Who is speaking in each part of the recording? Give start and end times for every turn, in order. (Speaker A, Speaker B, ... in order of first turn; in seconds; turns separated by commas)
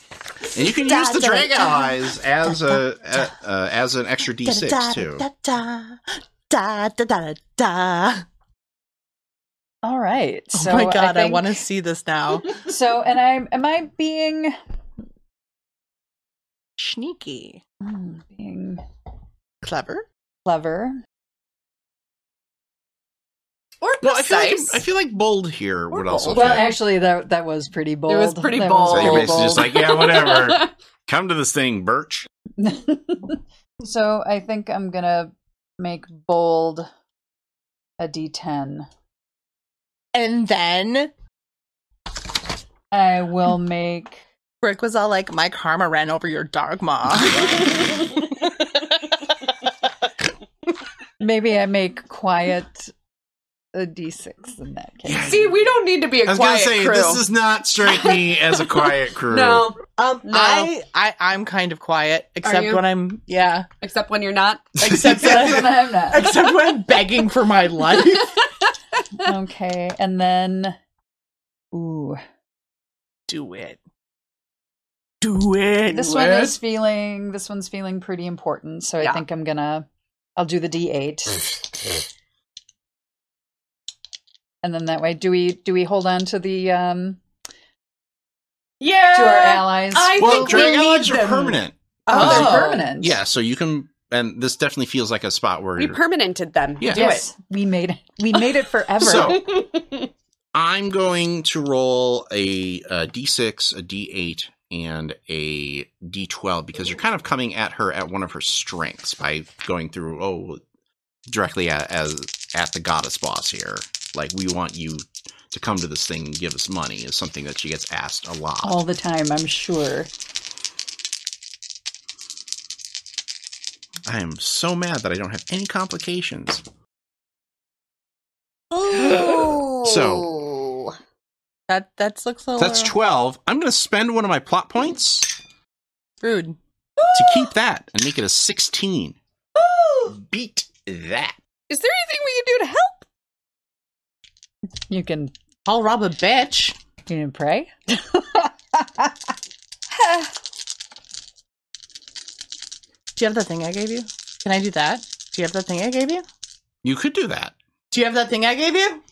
Speaker A: 0.5-5.2, Speaker B: 0.7-1.9, Speaker B: 4.5-8.2, Speaker C: 9.8-11.6, Speaker B: 10.5-12.6, Speaker C: 12.5-14.6, Speaker B: 16.8-17.6, Speaker C: 17.8-18.8, Speaker B: 19.6-20.1, Speaker C: 20.5-20.9, Speaker D: 23.8-24.8, Speaker A: 24.0-26.7, Speaker D: 25.9-26.6, Speaker C: 26.3-29.7, Speaker D: 28.1-30.7, Speaker A: 28.9-32.3, Speaker C: 32.6-36.9, Speaker C: 38.0-38.9, Speaker B: 40.1-41.1, Speaker C: 42.9-44.2, Speaker B: 44.6-48.1, Speaker C: 51.2-52.9, Speaker C: 53.7-55.4, Speaker A: 55.0-55.6, Speaker D: 55.2-57.2, Speaker A: 56.2-59.7, Speaker D: 59.3-60.7, Speaker B: 60.0-63.7, Speaker D: 62.4-62.9, Speaker D: 63.8-64.7, Speaker B: 64.8-68.4, Speaker A: 65.0-65.4, Speaker C: 65.0-66.4, Speaker C: 69.2-70.8, Speaker C: 71.7-72.2, Speaker B: 73.3-73.8, Speaker B: 75.2-76.6, Speaker C: 75.9-79.9, Speaker C: 80.4-81.6, Speaker C: 84.6-87.2, Speaker D: 88.8-92.9, Speaker C: 89.1-90.7, Speaker A: 90.2-96.0, Speaker C: 92.1-93.2, Speaker D: 95.8-97.3, Speaker A: 96.8-97.2, Speaker C: 96.9-99.4, Speaker A: 99.0-99.5, Speaker D: 99.0-100.1, Speaker A: 100.5-110.6, Speaker A: 111.3-118.8, Speaker C: 118.6-120.1, Speaker A: 124.1-126.6, Speaker D: 128.8-131.0, Speaker B: 129.1-129.5, Speaker A: 129.8-130.3, Speaker B: 131.7-132.9, Speaker A: 132.6-135.4, Speaker B: 136.2-136.6, Speaker D: 137.0-137.5, Speaker A: 137.1-139.2, Speaker D: 139.6-140.2, Speaker A: 140.1-141.3, Speaker D: 141.7-143.1, Speaker C: 144.9-145.3, Speaker B: 145.7-146.8, Speaker C: 147.1-149.1, Speaker B: 153.2-156.2, Speaker A: 156.8-157.6, Speaker B: 157.9-159.0